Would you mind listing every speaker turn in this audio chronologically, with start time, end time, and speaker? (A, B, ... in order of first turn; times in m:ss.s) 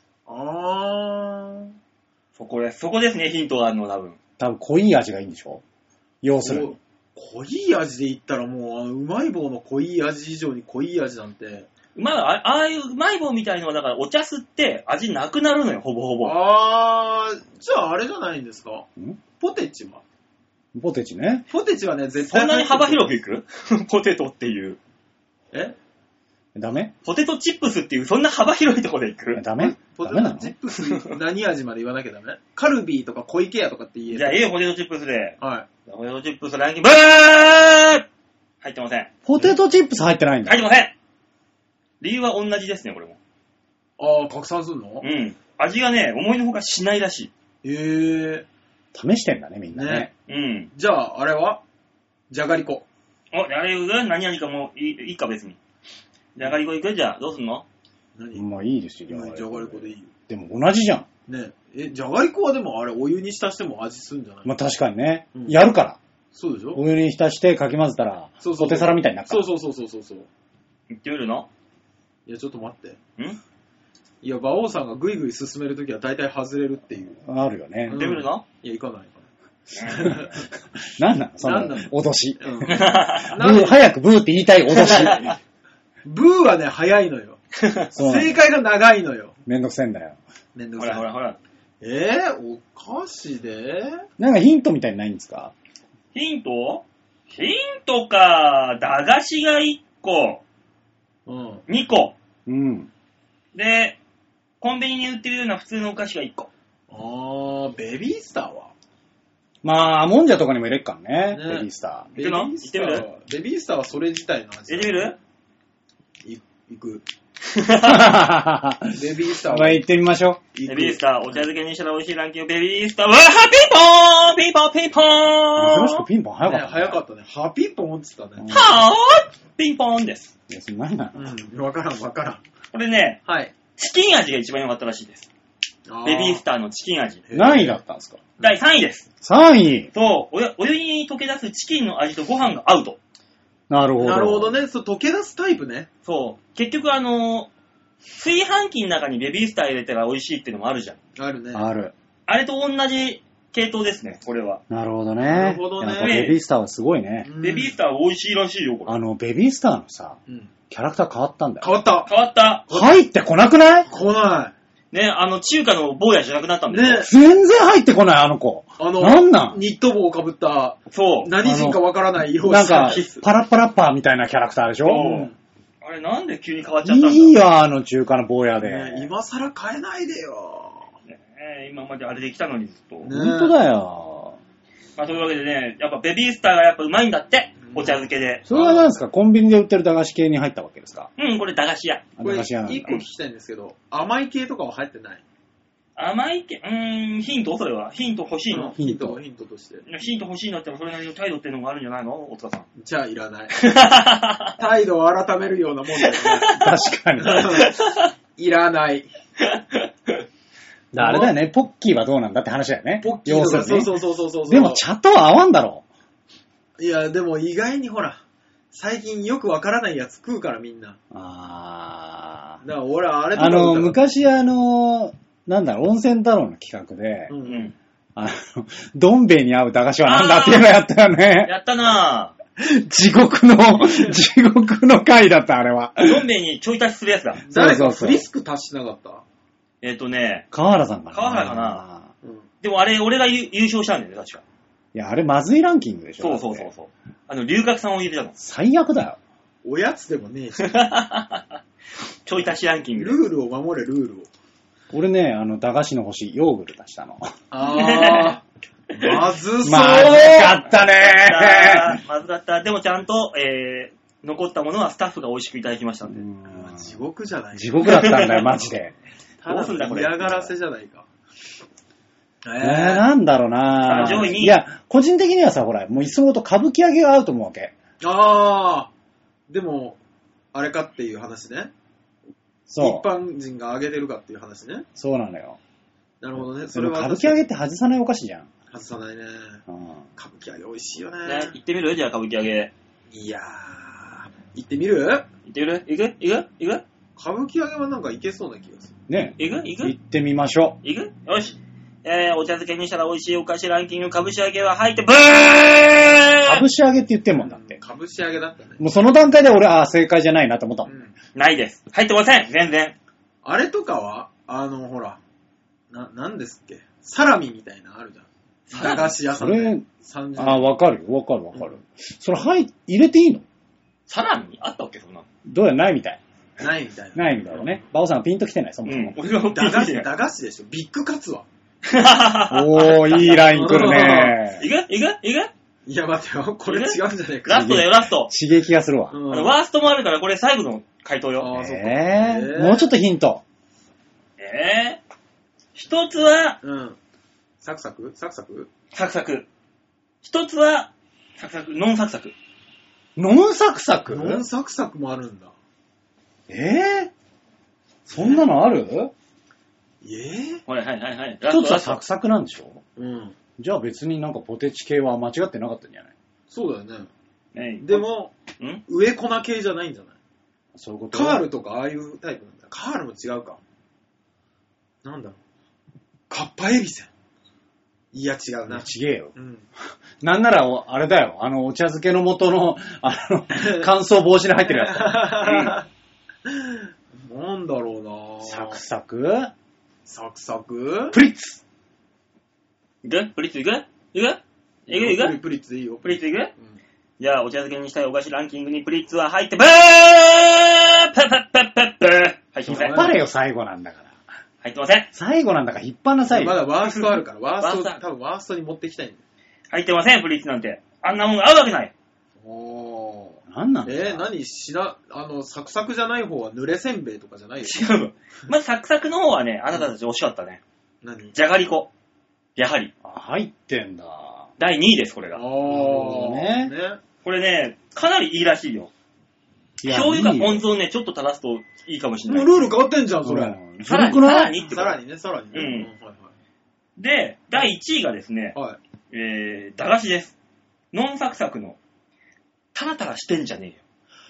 0:00.2-0:01.8 A
0:02.4-0:04.2 B
0:04.4-0:05.6 C
0:06.2-0:06.8 C
0:06.4-0:11.7 A
0:12.0-0:16.4 B
0:16.2-0:18.9 A
0:19.4-0:20.0 A
0:20.7-0:21.4 C
0:21.5-0:23.1 A
0:22.2-0:24.8 B
0:26.5-0:26.9 C
0:27.0-0:29.4 B
0:29.3-0:30.5 C
0:29.6-0:34.5 A
0:34.1-0:38.0 B
0:35.4-0:35.6 A
0:38.6-0:39.1 B
0:39.2-0:40.6 C
0:40.4-0:40.9 B
0:42.0-0:43.2 B
0:44.0-0:45.0 A
0:45.0-0:47.3 B
0:47.6-0:48.4 A
0:48.9-0:50.1 C
0:49.7-0:50.1 A
0:50.3-0:50.7 B
0:50.7-0:51.6 A
0:52.3-0:52.8 A
0:53.3-0:55.6 B
0:56.3-0:57.6 B
0:58.2-0:58.5 A
0:58.3-1:01.1 C
0:59.1-1:00.1 A
1:01.3-1:04.5 A
1:04.4-1:06.0 C
1:06.3-1:06.8 A
1:06.7-1:09.5 C
1:08.4-1:10.3 A
1:10.9-1:11.5 B
1:12.2-1:13.0 A
1:14.2-1:17.2 A
1:17.2-1:18.0 C
1:17.9-1:19.2 A
1:17.9-1:18.4 B
1:19.7-1:20.3 B
1:19.8-1:20.3 A
1:20.8-1:25.4 C
1:21.4-1:23.8 A
1:22.6-1:23.4 B
1:24.7-1:25.3 B
1:24.7-1:25.3 A
1:26.0-1:29.3 A
1:27.6-1:27.8 B
1:27.9-1:28.4 C
1:29.4-1:30.2 C
1:30.5-1:31.0 A
1:30.8-1:31.4 B
1:31.8-1:34.0 A
1:34.2-1:35.5 C
1:36.1-1:40.4 B
1:41.2-1:41.6 A
1:41.7-1:42.1 B
1:42.4-1:42.9 C
1:43.5-1:44.0 B
1:44.6-1:46.5 B
1:46.9-1:48.7 A
1:49.6-1:52.1 C
1:51.3-1:55.2 A
1:52.2-1:53.1 B
1:54.7-1:55.2 B
1:56.2-1:57.0 A
1:57.5-1:58.1 B
1:57.8-2:00.4 C
1:58.9-1:59.8 A
2:00.5-2:01.5 A
2:00.6-2:06.0 B
2:05.6-2:07.0 C
2:06.4-2:08.5 A
2:08.4-2:08.8 C
2:08.5-2:10.3 B
2:10.5-2:11.3 C
2:11.1-2:12.4 A
2:12.7-2:13.2 B
2:13.2-2:13.5 A
2:13.7-2:15.3 B
2:15.9-2:16.4 A
2:16.0-2:17.2 B
2:17.2-2:17.8 A
2:17.3-2:18.2 C
2:18.4-2:19.0 B
2:19.2-2:19.9 C
2:19.9-2:23.0 B
2:23.7-2:24.6 C
2:24.0-2:25.9 A
2:26.0-2:27.5 B
2:28.2-2:31.0 B
2:31.2-2:31.7 A
2:31.5-2:31.9 C
2:32.3-2:34.6 B
2:34.7-2:37.3 C
2:35.2-2:36.3 A
2:36.0-2:36.4 B
2:37.2-2:37.7 A
2:37.4-2:39.0 B
2:38.8-2:40.2 C
2:40.7-2:41.7 C
2:41.6-2:42.1 A
2:42.0-2:42.6 B
2:42.7-2:43.9 C
2:42.7-2:43.0 A
2:43.9-2:44.5 A
2:44.9-2:47.1 B
2:46.7-2:47.1 A
2:47.0-2:49.6 C
2:48.8-2:53.2 A
2:50.9-2:51.3 B
2:51.4-2:51.8 C
2:52.4-2:55.3 C
2:54.8-2:55.3 B
2:54.9-2:55.4 A
2:55.8-2:57.4 B
2:56.8-2:59.1 C
2:58.6-3:00.9 A
3:01.1-3:03.1 B
3:03.0-3:03.5 A
3:03.1-3:04.4 C
3:05.0-3:08.9 B
3:07.6-3:08.0 A
3:08.5-3:11.1 C
3:11.2-3:12.1 B
3:12.2-3:13.0 C
3:12.2-3:15.2 A
3:16.0-3:18.7 B
3:18.5-3:19.8 A
3:18.6-3:19.2 C
3:19.8-3:22.7 B
3:22.8-3:23.7 A
3:23.5-3:24.6 B
3:24.6-3:26.6 A
3:26.0-3:28.1 B
3:26.5-3:27.6 C
3:27.2-3:27.7 A
3:28.4-3:29.1 A
3:29.4-3:30.2 B
3:30.9-3:33.9 C
3:31.0-3:31.3 A
3:33.0-3:34.8 A
3:34.5-3:35.8 C
3:36.8-3:38.2 A
3:38.7-3:41.0 A
3:41.1-3:42.6 C
3:42.6-3:44.0 A
3:43.3-3:47.3 C
3:47.3-3:47.7 A
3:47.4-3:47.7 B
3:48.2-3:51.5 C
3:50.0-3:50.7 B
3:51.4-3:52.3 B
3:52.6-3:56.2 C
3:53.8-3:54.2 A
3:56.0-3:57.4 B
3:57.4-3:59.2 A
3:57.5-3:58.2 C
3:59.8-4:00.4 B
4:00.5-4:02.1 C
4:01.1-4:01.8 B
4:02.6-4:04.4 B
4:04.9-4:06.7 C
4:06.2-4:08.3 B
4:08.4-4:09.2 C
4:09.6-4:10.8 A
4:10.6-4:11.4 B
4:12.2-4:13.2 B
4:13.0-4:14.3 A
4:14.9-4:17.3 C
4:17.5-4:18.4 A
4:17.7-4:18.4 B
4:19.0-4:20.5 A
4:19.0-4:26.2 B
4:19.6-4:22.0 C
4:26.0-4:27.0 C
4:26.6-4:28.8 A
4:27.5-4:28.9 C
4:27.8-4:28.5 B
4:29.4-4:31.0 A
4:29.4-4:30.5 B
4:32.4-4:33.0 A
4:32.6-4:37.7 C
4:33.8-4:34.6 B
4:38.0-4:38.9 A
4:39.5-4:40.0 A
4:40.5-4:41.7 A
4:42.7-4:43.0 C
4:42.8-4:44.8 A
4:45.0-4:45.6 C
4:46.2-4:47.4 A
4:46.4-4:48.5 C
4:48.7-4:49.6 A
4:49.7-4:50.0 C
4:50.2-4:51.5 A
4:51.2-4:52.7 B
4:53.1-4:55.2 A
4:55.5-4:56.8 B
4:57.2-4:58.9 A
4:59.1-5:00.8 C
4:59.4-4:59.9 B
5:00.8-5:06.6 B
5:06.4-5:07.8 C
5:07.3-5:08.8 A
5:08.8-5:11.0 C
5:10.8-5:11.1 A
5:11.3-5:12.9 B
5:13.4-5:15.2 A
5:15.9-5:20.7 A
5:18.7-5:19.1 B
5:19.2-5:23.4 C
5:24.1-5:25.2 B
5:25.4-5:26.2 C
5:26.6-5:27.8 A
5:27.1-5:29.2 C
5:28.8-5:30.1 B
5:29.5-5:31.4 A
5:31.8-5:35.5 B
5:32.5-5:34.6 C
5:33.4-5:34.4 A
5:35.8-5:37.8 A
5:36.7-5:38.3 B
5:37.6-5:39.2 C
5:39.1-5:39.5 A
5:39.3-5:41.5 B
5:41.4-5:42.9 A
5:41.5-5:43.4 C
5:44.4-5:45.0 B
5:45.7-5:46.6 B
5:46.6-5:47.0 A
5:47.6-5:48.7 A
5:48.9-5:49.5 B
5:50.2-5:52.3 B
5:53.2-5:54.4 C
5:54.1-5:55.5 A
5:56.5-5:57.1 C
5:58.0-5:59.1 C
5:58.1-5:58.4 A
6:00.0-6:00.6 A
6:00.7-6:02.0 B
6:01.5-6:02.8 C
6:03.0-6:03.4 A
6:03.6-6:06.1 C
6:06.5-6:07.1 A
6:07.5-6:08.0 B
6:07.8-6:08.3 A
6:08.8-6:10.1 A
6:10.8-6:11.4 C
6:11.1-6:13.6 A
6:15.0-6:15.4 A
6:16.3-6:17.1 A
6:18.1-6:19.6 A
6:18.7-6:19.3 C
6:20.2-6:25.6 C
6:23.6-6:23.9 A
6:24.7-6:25.9 A
6:26.4-6:28.8 A
6:28.4-6:29.5 C
6:30.0-6:31.2 A
6:31.1-6:31.6 C
6:33.0-6:35.4 B
6:34.9-6:36.8 A
6:36.0-6:36.5 B
6:37.2-6:43.2 B
6:42.7-6:43.2 A
6:42.7-6:44.1 C
6:44.6-6:45.1 B
6:45.1-6:46.6 C
6:46.3-6:49.2 A
6:46.8-6:48.0 B
6:49.7-6:51.9 B
6:52.4-6:57.8 A
6:53.5-6:54.3 C
6:57.6-7:00.6 B
7:01.0-7:01.3 A
7:01.3-7:01.9 B
7:02.6-7:02.9 B
7:03.0-7:04.5 C
7:04.6-7:05.5 B
7:05.3-7:07.0 A
7:05.7-7:06.7 C
7:07.2-7:08.9 B
7:09.8-7:10.6 C
7:09.8-7:12.6 B
7:12.3-7:13.6 A
7:13.2-7:14.6 C
7:13.8-7:15.0 B
7:14.6-7:16.3 A
7:15.5-7:15.9 B
7:17.0-7:18.6 B
7:19.1-7:20.3 B
7:20.9-7:21.8 B
7:22.7-7:23.8 B